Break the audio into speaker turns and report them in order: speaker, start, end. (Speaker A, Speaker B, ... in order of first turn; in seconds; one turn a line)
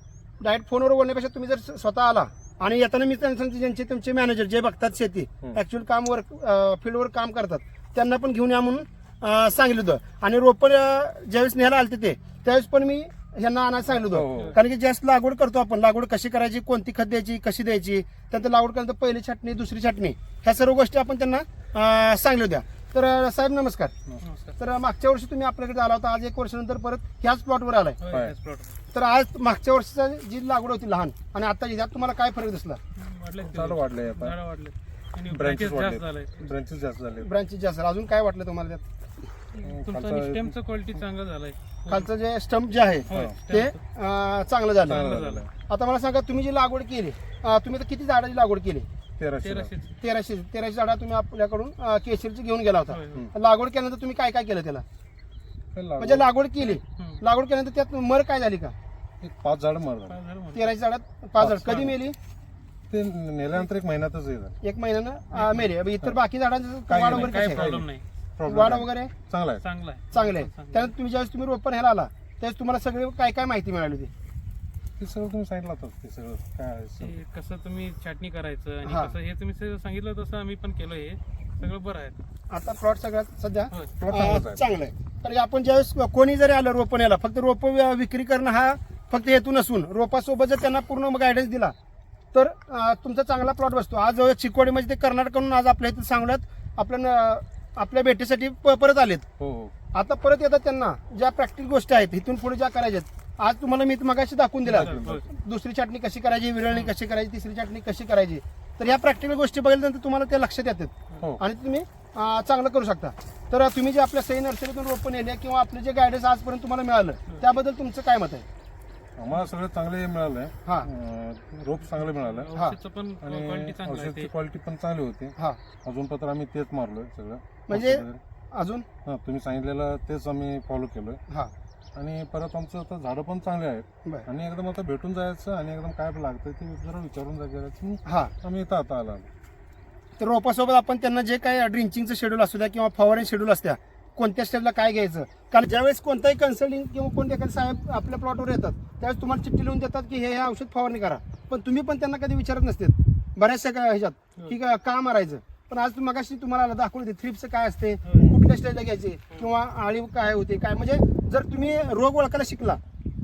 Speaker A: 0.4-23.9
Speaker B: 14.1-14.6
Speaker C: 14.3-14.6
Speaker C: 24.2-24.6
Speaker A: 24.6-28.0
Speaker C: 28.0-28.8
Speaker B: 28.1-28.4
Speaker A: 28.9-32.8
Speaker C: 33.0-36.4
Speaker B: 33.4-34.4
Speaker B: 35.3-37.3
Speaker A: 37.2-38.9
Speaker C: 39.5-42.1
Speaker B: 39.6-40.6
Speaker A: 41.9-45.0
Speaker C: 43.1-43.8
Speaker B: 43.1-43.4
Speaker C: 44.9-45.5
Speaker B: 44.9-45.5
Speaker A: 45.7-48.9
Speaker B: 49.2-49.7
Speaker C: 49.4-49.9
Speaker A: 50.0-54.9
Speaker C: 52.9-53.3
Speaker B: 55.7-56.3
Speaker A: 56.0-58.8
Speaker C: 56.6-57.2
Speaker B: 59.2-60.2
Speaker C: 60.1-60.7
Speaker A: 60.5-62.2
Speaker B: 61.4-62.0
Speaker B: 62.9-64.6
Speaker A: 64.6-67.6
Speaker C: 65.3-65.7
Speaker B: 66.9-69.6
Speaker C: 67.0-68.0
Speaker A: 68.5-69.1
Speaker C: 69.6-70.9
Speaker A: 70.1-74.1
Speaker B: 75.0-77.2
Speaker C: 77.0-82.2
Speaker A: 78.8-79.2
Speaker A: 82.5-91.7
Speaker B: 84.0-84.7
Speaker A: 92.3-99.3
Speaker B: 99.4-99.7
Speaker A: 99.9-118.5
Speaker B: 104.7-105.2
Speaker C: 104.7-105.2
Speaker B: 119.2-122.5
Speaker C: 121.9-124.3
Speaker B: 123.2-128.2
Speaker A: 127.7-128.9
Speaker B: 129.1-131.2
Speaker B: 131.9-139.3
Speaker A: 138.1-138.3
Speaker A: 140.2-162.8
Speaker C: 158.0-158.3